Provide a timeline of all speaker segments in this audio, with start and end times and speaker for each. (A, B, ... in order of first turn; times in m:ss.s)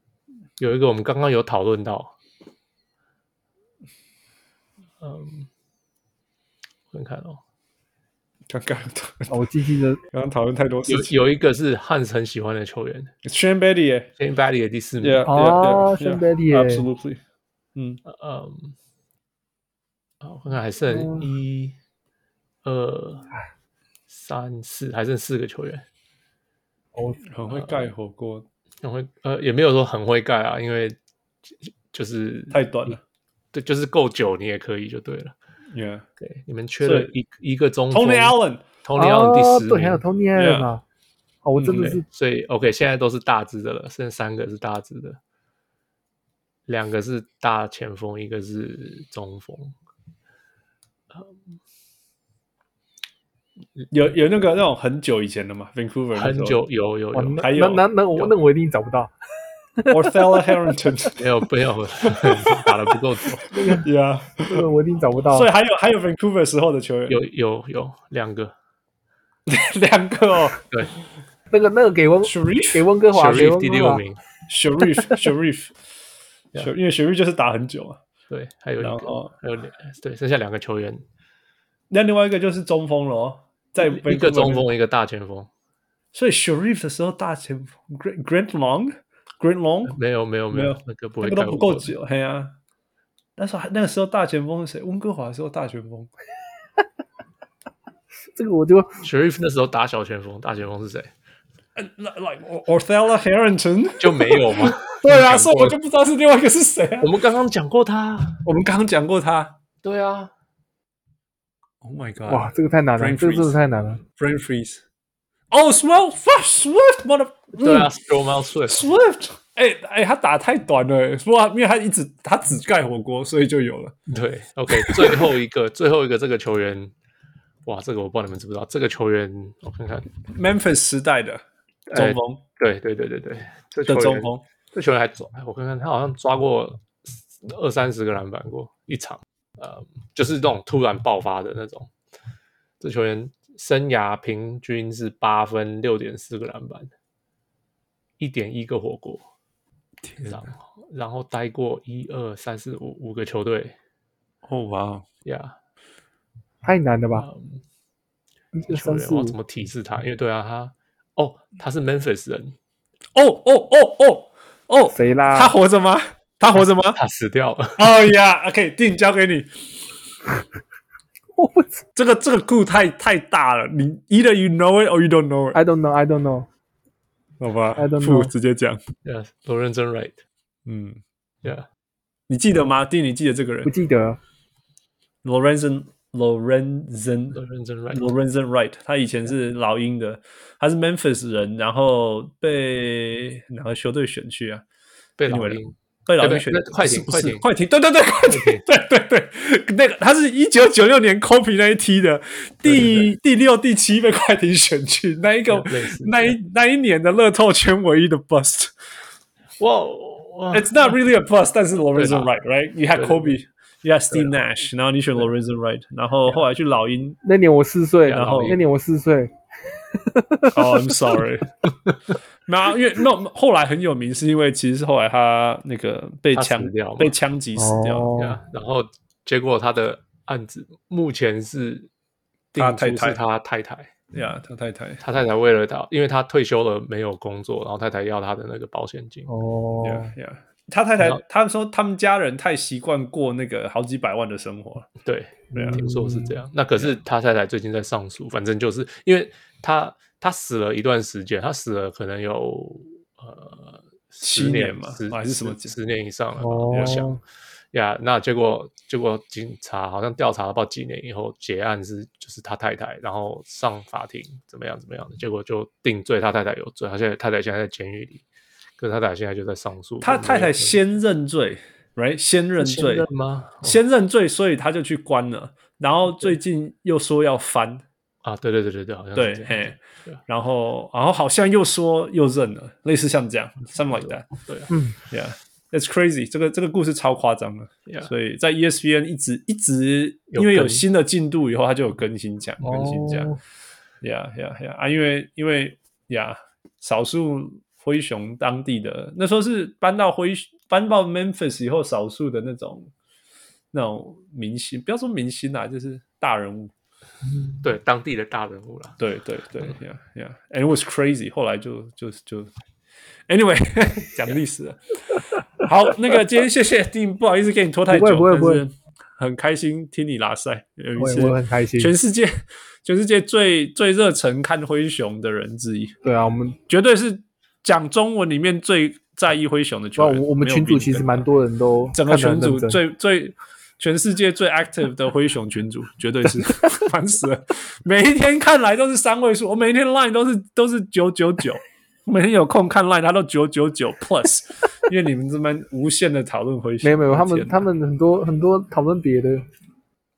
0:00.6-0:02.1 A
0:05.0-0:05.5 A
0:06.9-0:07.4 A
0:08.5-0:09.4 B
0:09.3-0:10.0 C
0:10.1-0:11.2 B
0:10.9-0:13.1 A
0:13.2-0:14.1 B
0:14.2-0:15.3 A
0:15.0-0:17.2 B
0:15.3-0:16.9 C
0:17.8-0:18.0 B
0:18.1-0:18.8 A
0:20.2-0:21.8 A
0:20.9-0:21.3 C
0:22.6-0:23.3 A
0:24.1-0:25.8 A
0:26.9-0:27.2 C
0:27.3-0:28.5 B
0:27.5-0:27.9 A
0:28.8-0:31.0 A
0:31.5-0:33.0 A
0:32.5-0:33.0 B
0:33.5-0:35.4 A
0:35.7-0:36.1 B
0:36.2-0:40.0 A
0:36.8-0:37.1 B
0:37.9-0:38.6 B
0:39.0-0:40.8 C
0:40.4-0:40.7 B
0:41.4-0:42.0 C
0:41.6-0:42.0 B
0:41.8-0:45.2 A
0:46.7-0:49.8 A
0:53.9-0:56.6 B
0:56.2-0:57.5 A
0:57.1-0:59.1 C
0:57.4-0:57.8 B
0:59.8-1:00.6 C
0:59.9-1:01.2 B
1:01.2-1:03.6 A
1:02.0-1:02.7 B
1:03.5-1:03.9 C
1:03.8-1:04.7 B
1:04.4-1:05.5 C
1:05.3-1:07.2 B
1:07.1-1:08.6 A
1:09.5-1:10.6 B
1:11.5-1:14.0 C
1:12.2-1:12.9 B
1:13.1-1:14.2 A
1:14.5-1:15.8 B
1:16.6-1:18.0 B
1:18.3-1:21.0 A
1:18.8-1:19.3 B
1:21.9-1:24.7 B
1:23.8-1:25.5 A
1:26.1-1:30.0 B
1:29.9-1:31.9 A
1:30.5-1:32.5 B
1:33.4-1:36.1 B
1:38.3-1:39.0 C
1:39.0-1:41.1 A
1:41.8-1:47.1 B
1:44.0-1:45.8 A
1:47.0-1:48.4 A
1:48.4-1:49.6 B
1:49.8-1:50.3 A
1:51.8-1:53.6 B
1:52.3-1:54.0 C
1:54.2-1:54.8 B
1:55.5-1:57.9 B
1:57.6-1:58.9 A
1:58.7-2:04.0 B
2:04.1-2:06.9 A
2:04.8-2:05.2 B
2:07.6-2:10.1 A
2:10.3-2:12.4 B
2:11.9-2:21.9 A
2:13.9-2:14.4 B
2:22.8-2:26.9 A
2:28.2-2:29.3 A
2:30.0-2:30.5 B
2:30.2-2:33.8 A
2:34.5-2:35.0 B
2:35.2-2:35.6 A
2:36.6-2:37.3 C
2:37.2-2:37.6 A
2:38.5-2:39.4 C
2:38.7-2:42.6 A
2:43.2-2:47.0 B
2:44.9-2:45.6 C
2:47.0-2:47.9 A
2:47.8-2:49.5 B
2:51.4-2:51.8 C
2:52.0-2:55.6 B
2:55.5-2:56.5 C
2:57.4-2:58.8 B
2:57.8-2:58.3 C
2:59.0-3:00.2 A
3:00.7-3:01.0 B
3:02.3-3:03.7 B
3:03.6-3:04.2 C
3:05.2-3:07.4 B
3:07.3-3:08.1 A
3:07.9-3:14.6 B
3:15.2-3:17.4 A
3:15.3-3:28.7 B
3:18.3-3:18.6 A
3:22.6-3:23.1 A
3:25.5-3:26.4 A
3:29.6-3:31.0 A
3:30.5-3:37.2 B
3:32.0-3:32.3 A
3:33.0-3:33.3 A
3:37.2-3:41.0 C
3:38.0-3:38.6 A
3:38.1-3:38.6 B
3:40.5-3:41.5 B
3:42.5-3:48.1 B
3:46.3-3:47.1 A
3:47.6-3:48.4 C
3:48.2-3:51.9 A
3:52.5-3:53.9 A
3:52.6-3:53.2 B
3:54.1-3:55.0 B
3:55.0-3:59.3 A
3:59.3-4:00.1 C
3:59.8-4:04.9 B
4:05.0-4:17.2 A
4:05.5-4:05.8 B
4:05.5-4:06.4 C
4:14.2-4:15.8 B
4:16.4-4:17.2 C
4:16.7-4:17.0 B
4:17.7-4:28.2 A
4:28.8-4:30.8 A
4:30.0-4:33.1 B
4:32.6-4:33.8 A
4:33.6-4:37.8 B
4:38.2-4:40.2 A
4:39.2-4:44.3 B
4:43.9-4:44.7 A
4:44.7-4:45.0 C
4:45.1-4:53.3 B
4:50.3-4:50.8 A
4:52.6-4:53.4 C
4:54.0-5:02.9 B
5:03.7-5:06.7 B
5:07.6-5:09.0 A
5:09.0-5:12.5 B
5:13.3-5:25.9 B
5:17.9-5:18.6 C
5:21.0-5:21.9 C
5:26.0-5:26.6 C
5:26.7-5:31.3 B
5:30.0-5:32.8 C
5:32.0-5:47.7 B
5:46.8-5:49.5 C